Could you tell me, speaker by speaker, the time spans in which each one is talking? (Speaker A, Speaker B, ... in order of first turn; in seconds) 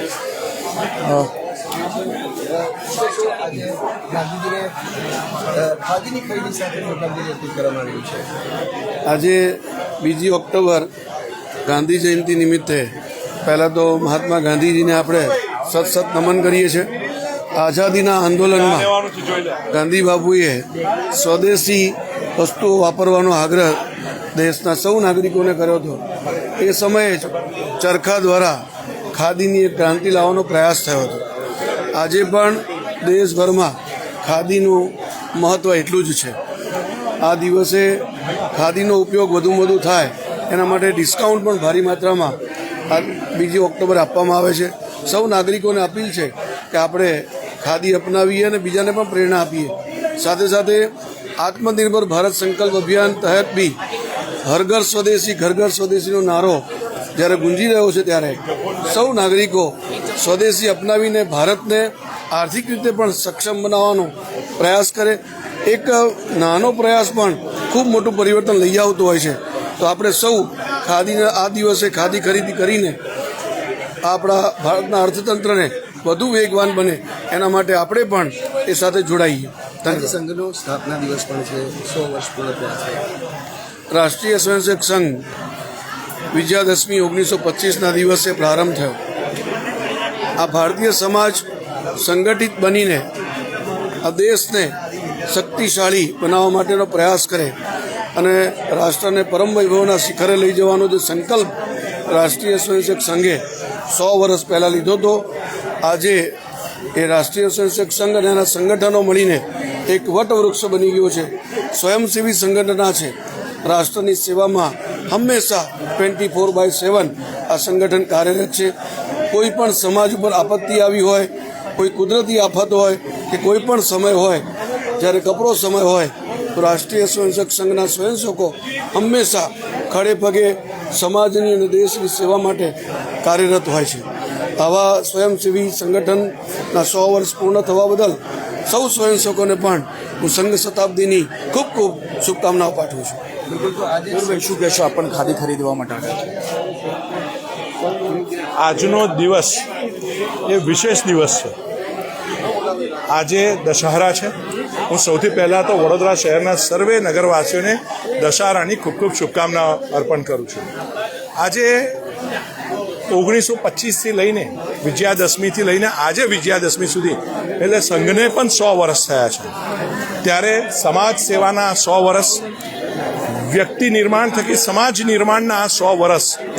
Speaker A: 1.0-1.3, 144.1-146.3
Speaker B: 2.6-4.7, 5.5-8.2, 79.9-83.0, 143.5-144.5
Speaker C: 9.1-10.9, 11.7-16.9, 17.5-19.1, 19.7-23.8, 24.3-26.1, 26.6-31.2, 31.9-36.4, 37.2-38.0, 38.5-42.4, 42.9-53.8, 54.4-73.0, 74.0-80.2, 83.9-85.3, 86.3-89.0, 90.4-91.5, 92.0-93.1, 94.0-94.8, 95.3-97.6, 98.2-101.5, 102.1-105.3, 105.8-106.3, 107.0-118.7, 119.3-124.5, 125.0-143.2
Speaker D: 148.6-149.7, 150.4-151.6, 153.1-154.3, 154.9-160.7, 161.4-162.0, 163.1-169.5, 170.2-172.4, 173.3-176.4